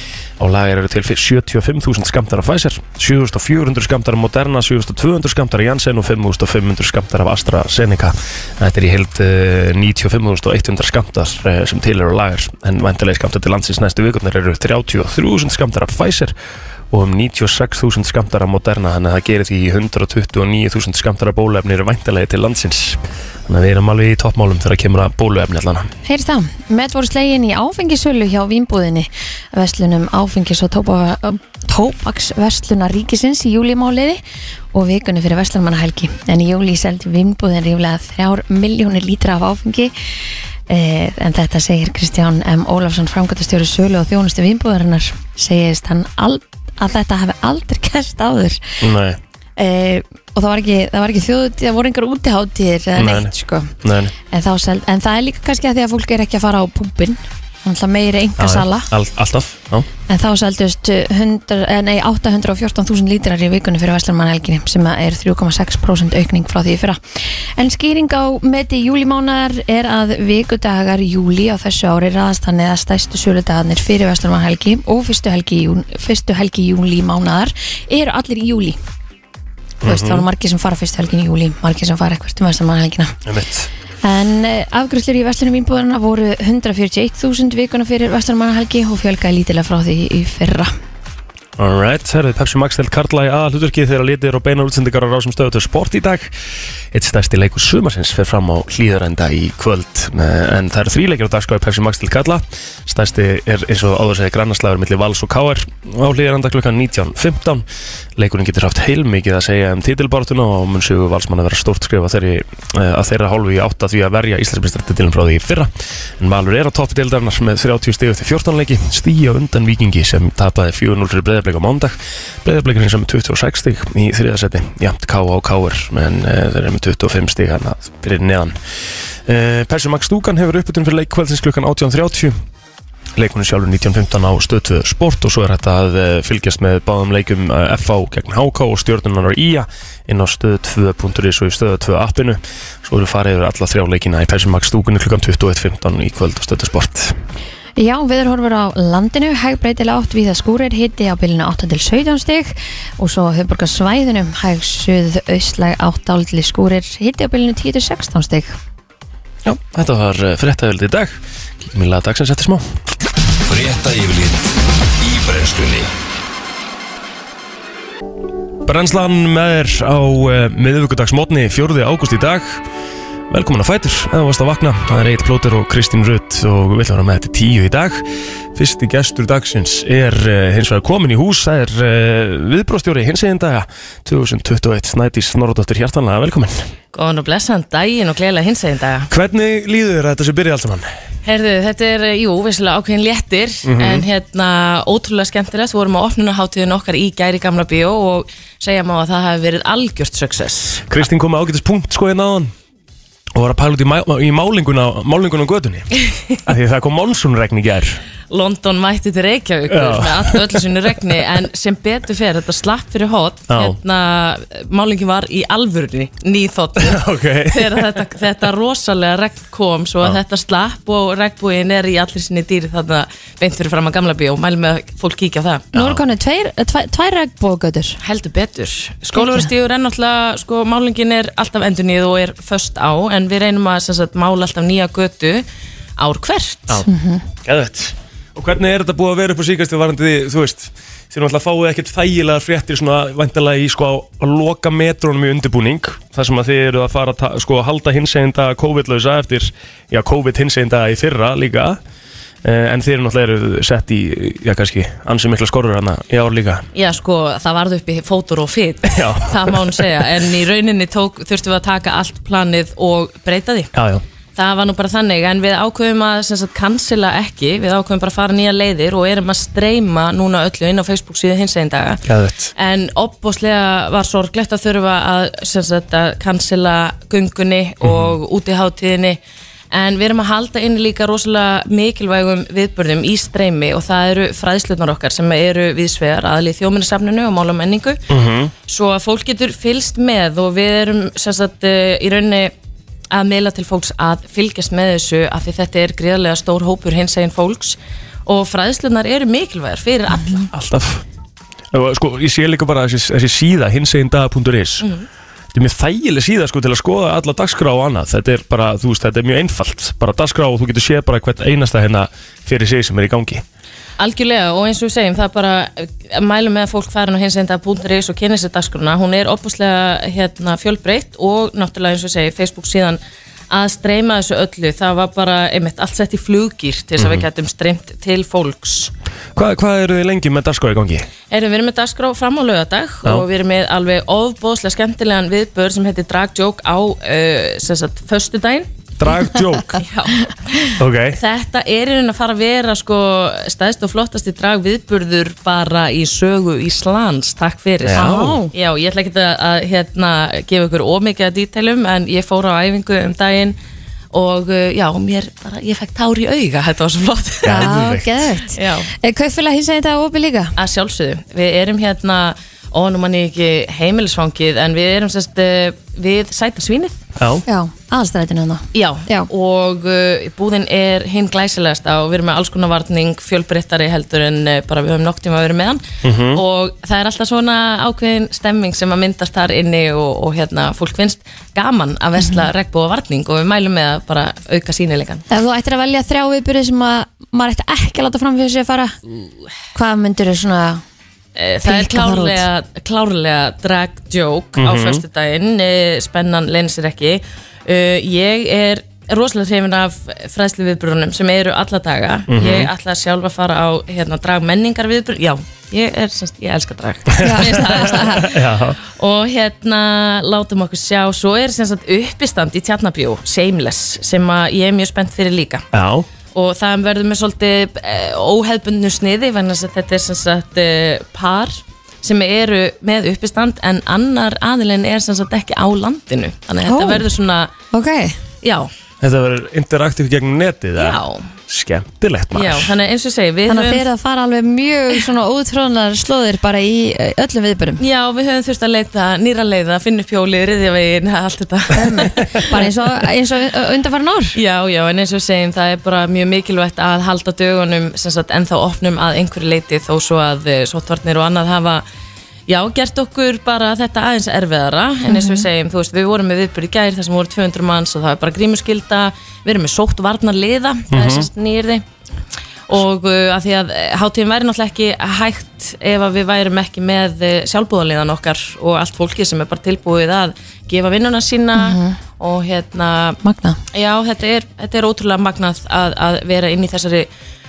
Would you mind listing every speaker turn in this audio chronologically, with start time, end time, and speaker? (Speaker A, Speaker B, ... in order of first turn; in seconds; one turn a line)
Speaker A: 0.4-16.3
Speaker A: 16.9-25.9
Speaker B: 26.0-34.2
Speaker B: 34.7-39.9
Speaker B: 40.7-48.8
Speaker A: 48.8-49.2
Speaker B: 49.6-53.7
Speaker A: 53.0-54.1
Speaker B: 54.3-58.9
Speaker A: 58.4-59.9
Speaker B: 60.1-78.8
Speaker A: 79.8-80.2
Speaker B: 79.8-83.1
Speaker A: 83.2-83.7
Speaker B: 84.0-90.7
Speaker A: 91.6-96.3
Speaker A: 96.9-128.6
Speaker A: 129.2-132.4
Speaker A: 133.2-147.1
Speaker B: 147.8-158.5
Speaker A: 159.4-162.7
Speaker C: 163.4-165.9
Speaker A: 168.6-172.6
Speaker A: 173.3-186.7
Speaker D: 186.9-189.1
Speaker A: 189.1-190.9
Speaker D: 191.2-200.9
Speaker A: 193.6-194.1
Speaker A: 200.9-202.5
Speaker A: 203.3-205.9
Speaker A: 206.4-208.0
Speaker D: 208.3-225.7
Speaker A: 209.7-210.6
Speaker A: 213.5-213.8
Speaker A: 216.8-217.9
Speaker A: 225.7-226.0
Speaker B: 225.7-228.0
Speaker D: 228.0-235.4
Speaker B: 229.1-229.5
Speaker D: 236.0-236.8
Speaker B: 236.8-237.2
Speaker A: 237.4-251.8
Speaker A: 252.4-256.6
Speaker D: 256.7-263.7
Speaker A: 258.9-260.0
Speaker A: 263.7-264.0
Speaker D: 264.4-272.0
Speaker A: 272.1-272.5
Speaker D: 272.6-279.2
Speaker A: 277.8-278.1
Speaker D: 279.7-288.0
Speaker A: 288.1-288.5
Speaker D: 288.7-292.5
Speaker D: 293.1-300.5
Speaker A: 300.5-301.0
Speaker A: 301.7-304.9
Speaker A: 305.5-313.4
Speaker D: 314.0-328.9
Speaker A: 327.0-327.3
Speaker A: 329.3-331.1
Speaker D: 331.3-338.7
Speaker A: 339.0-339.8
Speaker D: 339.8-353.6
Speaker A: 340.8-341.2
Speaker A: 347.8-348.4
Speaker B: 347.9-348.5
Speaker D: 354.1-357.8
Speaker A: 357.4-358.2
Speaker B: 357.4-360.5
Speaker D: 358.5-358.9
Speaker D: 360.6-367.0
Speaker A: 367.2-367.4
Speaker B: 367.5-369.3
Speaker D: 368.7-385.3
Speaker A: 376.0-376.4
Speaker B: 382.2-382.5
Speaker B: 385.3-389.0
Speaker B: 389.7-390.8
Speaker D: 391.4-415.6
Speaker B: 391.6-392.4
Speaker A: 394.6-395.0
Speaker A: 402.3-402.7
Speaker B: 407.2-408.3
Speaker A: 407.2-408.8
Speaker A: 415.7-416.1
Speaker D: 416.3-427.5
Speaker B: 426.6-427.1
Speaker B: 427.7-428.2
Speaker D: 428.4-428.7
Speaker A: 429.0-432.7
Speaker D: 430.8-431.3
Speaker D: 432.3-433.8
Speaker B: 433.5-437.8
Speaker D: 437.8-442.7
Speaker B: 441.7-444.4
Speaker D: 444.4-451.8
Speaker D: 452.5-461.8
Speaker B: 455.1-455.5
Speaker A: 460.9-461.3
Speaker D: 462.7-473.2
Speaker B: 471.5-472.0
Speaker B: 473.2-473.6
Speaker D: 473.7-477.1